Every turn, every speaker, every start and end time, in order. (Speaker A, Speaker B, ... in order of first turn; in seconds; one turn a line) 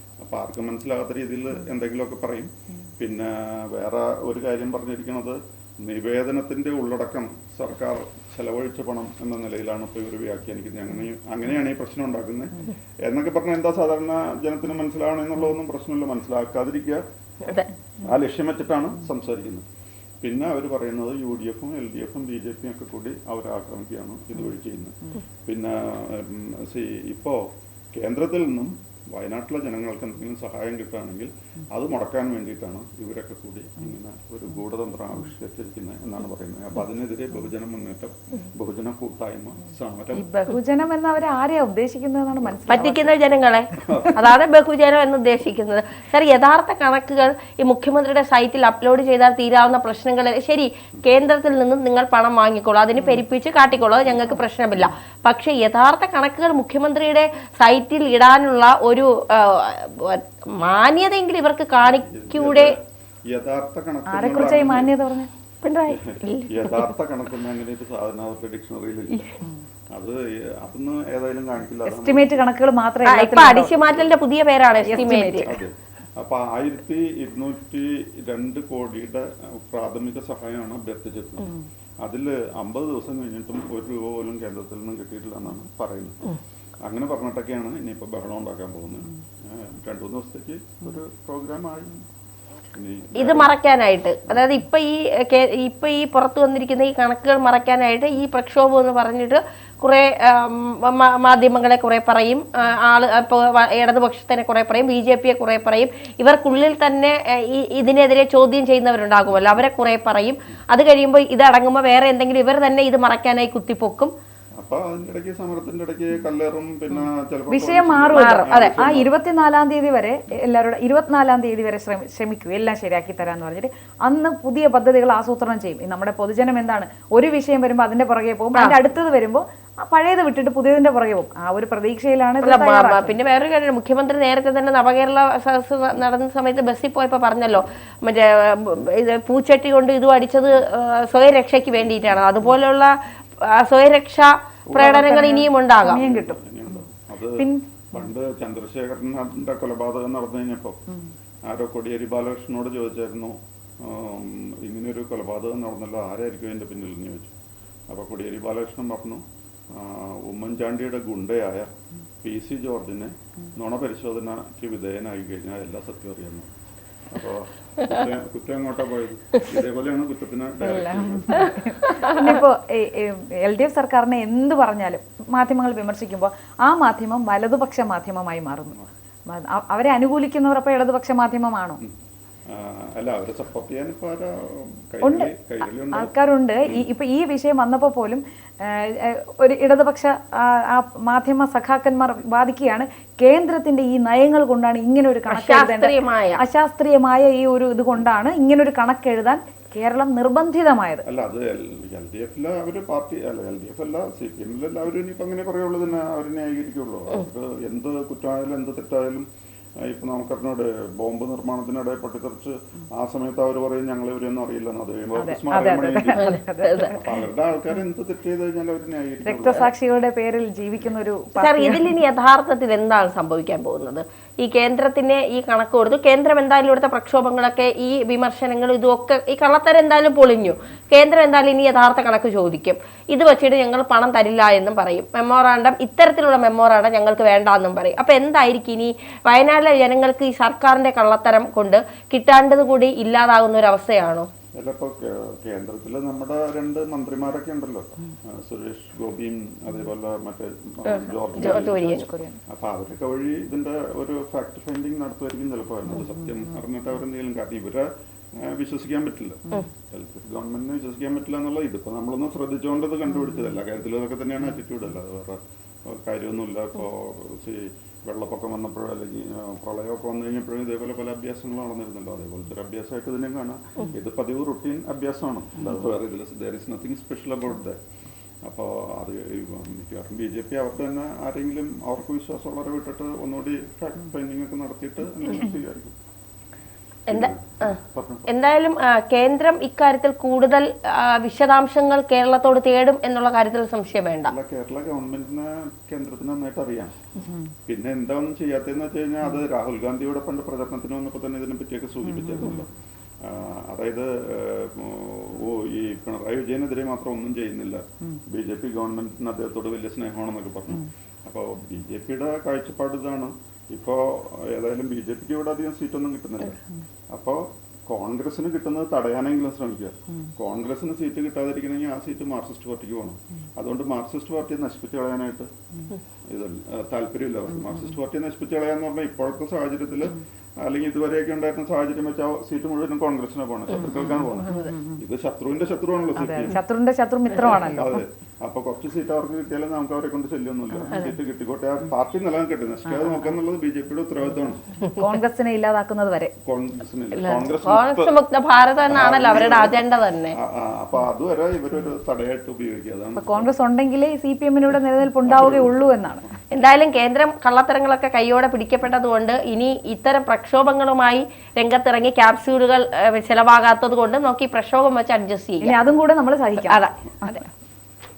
Speaker A: 0.2-17.0
Speaker B: 17.4-17.7
Speaker A: 18.0-19.6
Speaker A: 20.2-40.3
Speaker C: 40.1-43.1
Speaker B: 42.7-62.7
Speaker A: 43.8-44.2
Speaker A: 61.9-62.8
Speaker A: 63.3-64.9
Speaker C: 64.1-65.3
Speaker B: 65.6-66.9
Speaker A: 65.9-69.2
Speaker A: 69.9-72.3
Speaker C: 71.8-73.8
Speaker B: 73.0-75.6
Speaker A: 73.7-74.2
Speaker A: 74.8-81.5
Speaker C: 74.8-75.5
Speaker A: 82.0-91.9
Speaker A: 92.7-93.5
Speaker B: 93.2-114.1
Speaker A: 114.6-119.1
Speaker C: 117.5-133.1
Speaker B: 118.1-118.8
Speaker B: 128.5-128.8
Speaker B: 132.4-146.1
Speaker A: 144.7-150.8
Speaker C: 144.8-146.4
Speaker C: 147.4-147.6
Speaker A: 151.4-157.3
Speaker A: 157.9-161.7
Speaker A: 162.2-166.5
Speaker A: 167.1-171.7
Speaker C: 170.7-181.8
Speaker B: 171.9-172.4
Speaker A: 182.5-186.1
Speaker C: 185.0-185.3
Speaker C: 185.9-201.0
Speaker B: 195.3-196.4
Speaker A: 201.0-209.3
Speaker A: 209.8-216.3
Speaker C: 215.2-217.1
Speaker B: 216.1-216.9
Speaker A: 216.9-219.7
Speaker C: 219.2-221.9
Speaker B: 221.3-244.3
Speaker A: 244.6-251.9
Speaker B: 250.8-252.1
Speaker C: 251.4-252.4
Speaker A: 252.5-277.8
Speaker A: 278.4-285.9
Speaker A: 287.1-288.3
Speaker B: 287.1-294.3
Speaker A: 294.3-296.9
Speaker A: 297.7-302.7
Speaker C: 302.2-302.6
Speaker A: 303.2-316.6
Speaker A: 317.1-325.5
Speaker A: 326.3-336.6
Speaker C: 334.0-335.0
Speaker B: 334.4-334.7
Speaker C: 336.1-338.0
Speaker A: 337.4-344.7
Speaker C: 342.9-343.3
Speaker C: 344.9-346.3
Speaker A: 346.4-348.1
Speaker B: 347.1-350.4
Speaker A: 348.9-349.8
Speaker A: 350.3-353.5
Speaker C: 353.2-356.2
Speaker A: 355.2-355.9
Speaker B: 356.5-365.8
Speaker C: 365.6-367.3
Speaker B: 366.6-367.4